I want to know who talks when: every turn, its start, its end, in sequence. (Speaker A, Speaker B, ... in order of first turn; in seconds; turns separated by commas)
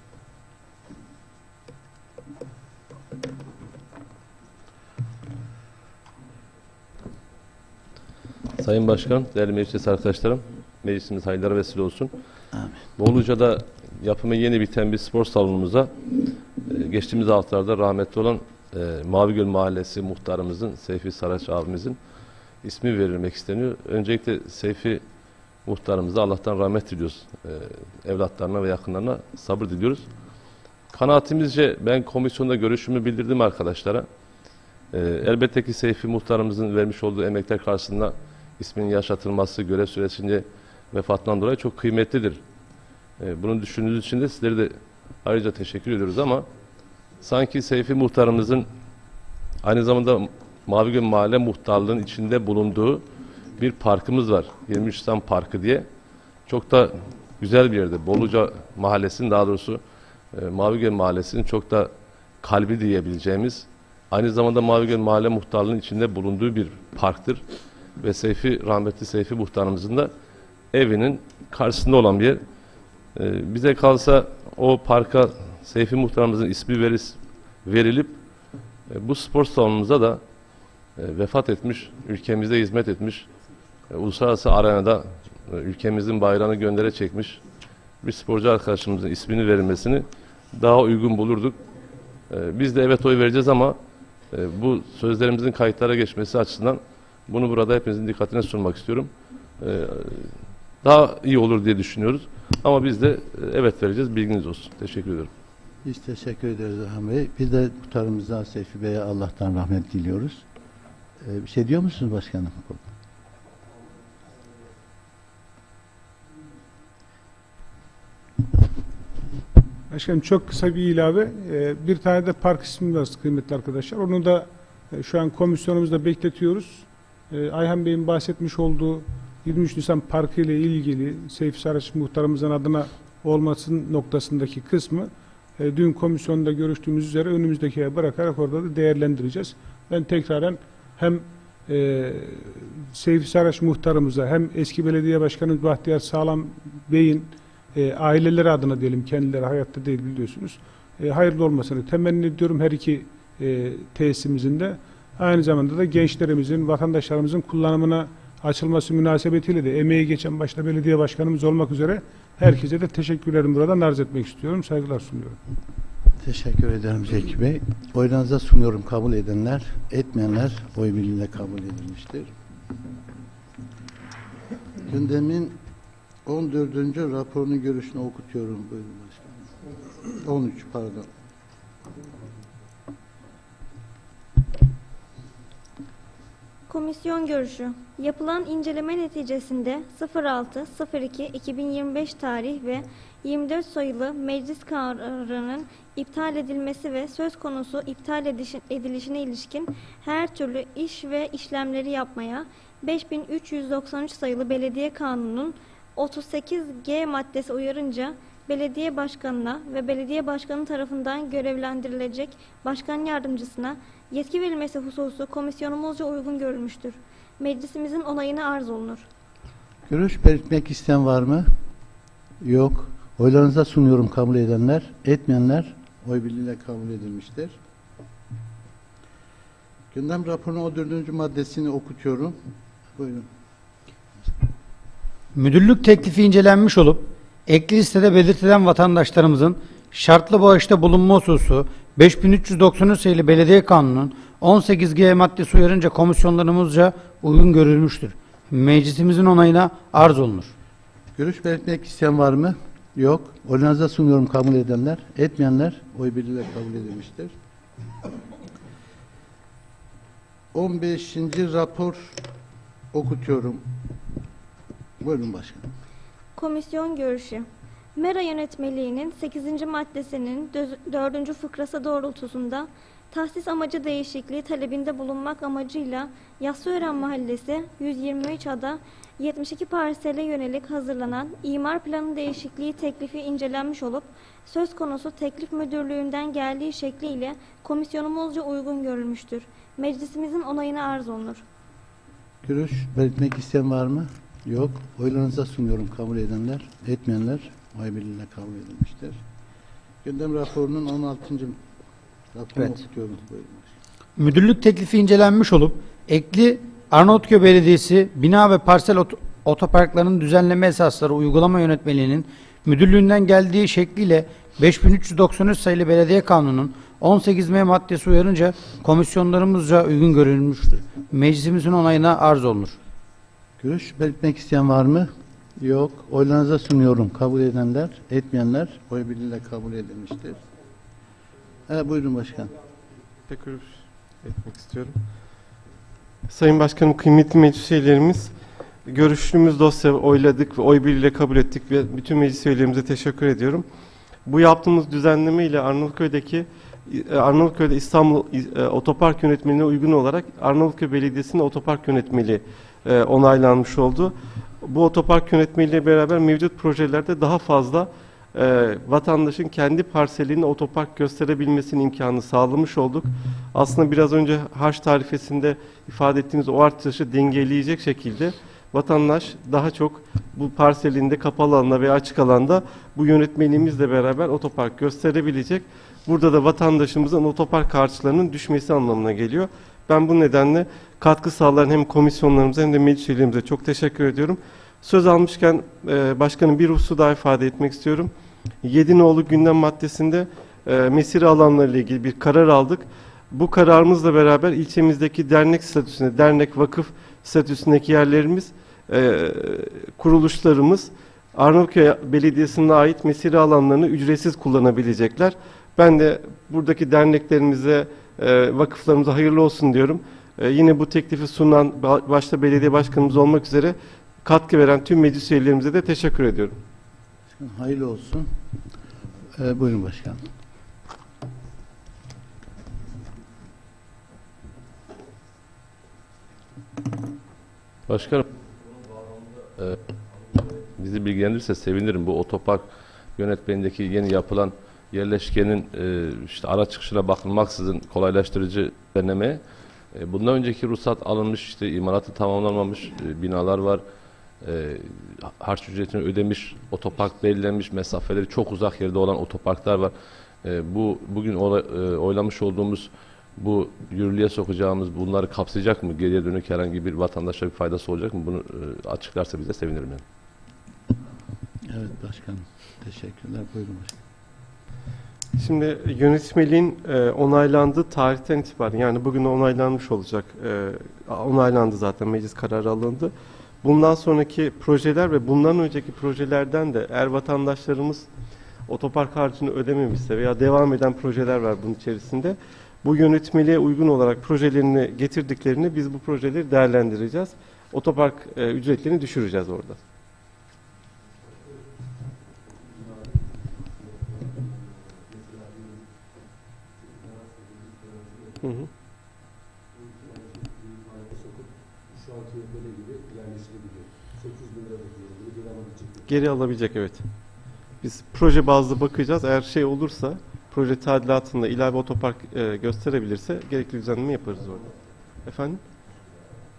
Speaker A: 8.6-12.1, Speaker B: 12.5-12.8, Speaker A: 13.0-15.9, Speaker A: 16.6-22.0, Speaker A: 22.6-25.0, Speaker A: 25.6-30.1, Speaker A: 30.9-34.1, Speaker A: 34.9-42.4, Speaker A: 43.2-46.5, Speaker A: 47.2-48.7, Speaker A: 49.6-53.0, Speaker A: 53.6-55.9, Speaker A: 56.5-59.8, Speaker A: 60.3-61.9, Speaker A: 62.4-67.4, Speaker A: 68.0-70.1, Speaker A: 70.7-72.4, Speaker A: 73.1-78.2, Speaker A: 78.9-80.2, Speaker A: 81.0-83.3, Speaker A: 83.9-87.4, Speaker A: 88.0-91.5, Speaker A: 92.3-93.8, Speaker A: 94.3-100.3, Speaker A: 100.8-105.3, Speaker B: 105.8-110.4, Speaker B: 111.2-112.9, Speaker C: 119.9-165.4, Speaker B: 166.2-172.3, Speaker B: 174.8-175.6, Speaker B: 176.2-179.4, Speaker B: 180.0-181.1, Speaker D: 186.7-219.1, Speaker B: 219.9-221.5, Speaker B: 222.4-227.6, Speaker B: 229.9-232.3, Speaker B: 232.9-233.3, Speaker E: 235.3-250.5, Speaker B: 251.2-257.3, Speaker B: 260.5-262.2, Speaker B: 262.9-263.6, Speaker B: 265.0-265.7, Speaker D: 266.4-291.4, Speaker B: 292.4-299.2, Speaker B: 300.0-301.6, Speaker B: 302.3-303.7, Speaker E: 304.2-322.8, Speaker B: 323.6-330.4, Speaker B: 331.7-332.5, Speaker F: 333.3-334.9, Speaker F: 336.3-338.3, Speaker F: 338.8-343.6, Speaker F: 344.2-388.1, Speaker F: 388.6-416.6, Speaker B: 417.3-418.3, Speaker B: 419.4-420.2, Speaker A: 427.9-428.3, Speaker A: 430.4-432.6, Speaker A: 433.2-439.4, Speaker A: 439.9-443.8, Speaker A: 444.4-449.9, Speaker A: 450.4-460.0, Speaker B: 461.6-464.0, Speaker F: 465.4-478.1, Speaker F: 478.7-489.8, Speaker F: 498.4-498.7, Speaker F: 506.1-507.0, Speaker F: 507.8-514.7, Speaker F: 515.2-515.6